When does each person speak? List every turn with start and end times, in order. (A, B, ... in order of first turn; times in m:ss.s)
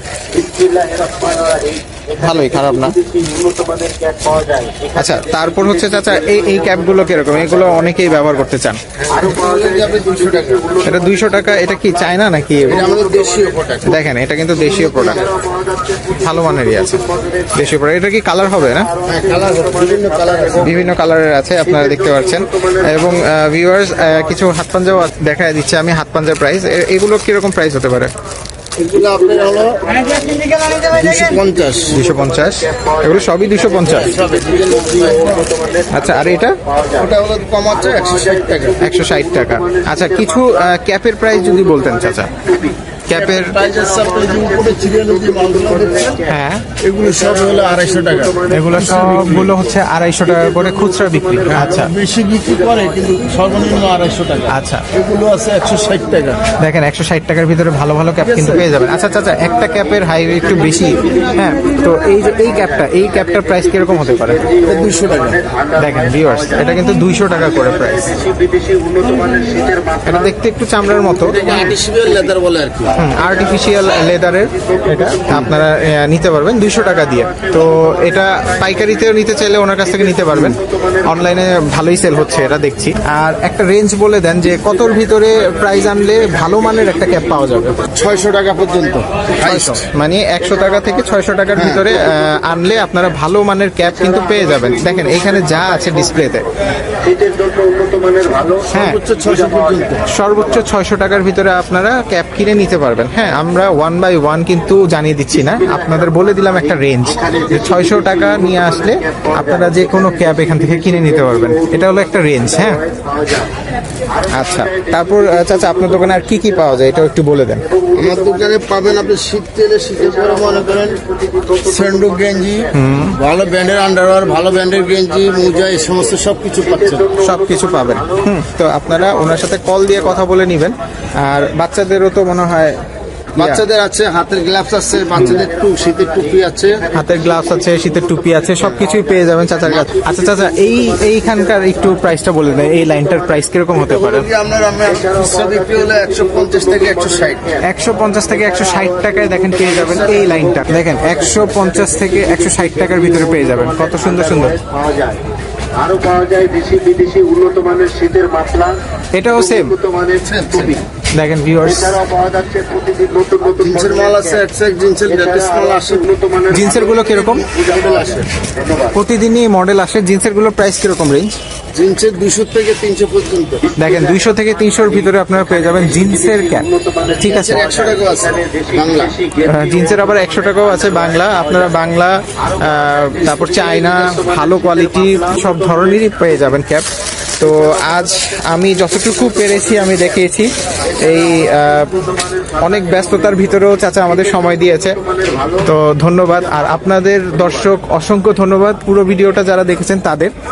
0:02.1-0:03.0 A
0:04.9-0:08.8 A
0:09.1-0:10.8 B
0:10.8-0:12.9 A
0:12.6-0:14.0 B
0:13.8-0:15.3 A
0:14.9-0:15.2 B
0:16.1-0:18.9 A
0:19.0-0:20.7 B
0:20.6-0:28.1 A
0:28.8-0:32.0 B
0:31.9-0:34.2 A
0:33.9-0:35.5 B
0:35.9-0:36.6 A
0:37.0-0:38.8 B
0:38.8-0:42.3 A
0:43.1-0:43.6 A
0:43.1-0:46.3 B
0:46.2-0:46.7 A
0:46.8-0:49.2 B
0:48.5-0:51.9 A
0:51.5-0:56.4 B
0:54.5-0:54.9 A
0:56.6-1:04.4 A
0:58.2-0:58.7 B
1:04.5-1:05.4 B
1:05.8-1:08.2 A
1:09.0-1:09.7 C
1:10.0-1:11.4 A
1:11.3-1:13.0 B
1:13.0-1:27.8 A
1:27.9-1:29.8 B
1:29.4-1:36.5 A
1:31.5-1:31.9 B
1:38.7-1:39.0 A
1:38.7-1:40.0 B
1:40.1-1:52.8 A
1:54.3-1:57.6 A
1:58.0-2:01.0 B
2:01.6-2:07.1 B
2:02.7-2:03.2 A
2:07.2-2:12.8 A
2:13.4-2:16.8 B
2:13.4-2:13.6 A
2:16.9-2:24.3 A
2:23.8-2:27.6 B
2:27.6-2:34.6 A
2:36.2-2:38.6 C
2:39.1-2:39.8 A
2:40.2-2:40.8 B
2:40.6-2:42.1 A
2:43.5-2:46.3 B
2:46.5-2:47.5 A
2:47.0-2:48.3 B
2:48.9-2:51.4 A
2:51.7-2:53.7 B
2:53.8-2:57.7 A
2:57.2-2:59.2 B
2:59.4-3:06.9 A
3:07.4-3:12.0 A
3:12.6-3:15.0 A
3:15.6-3:20.3 A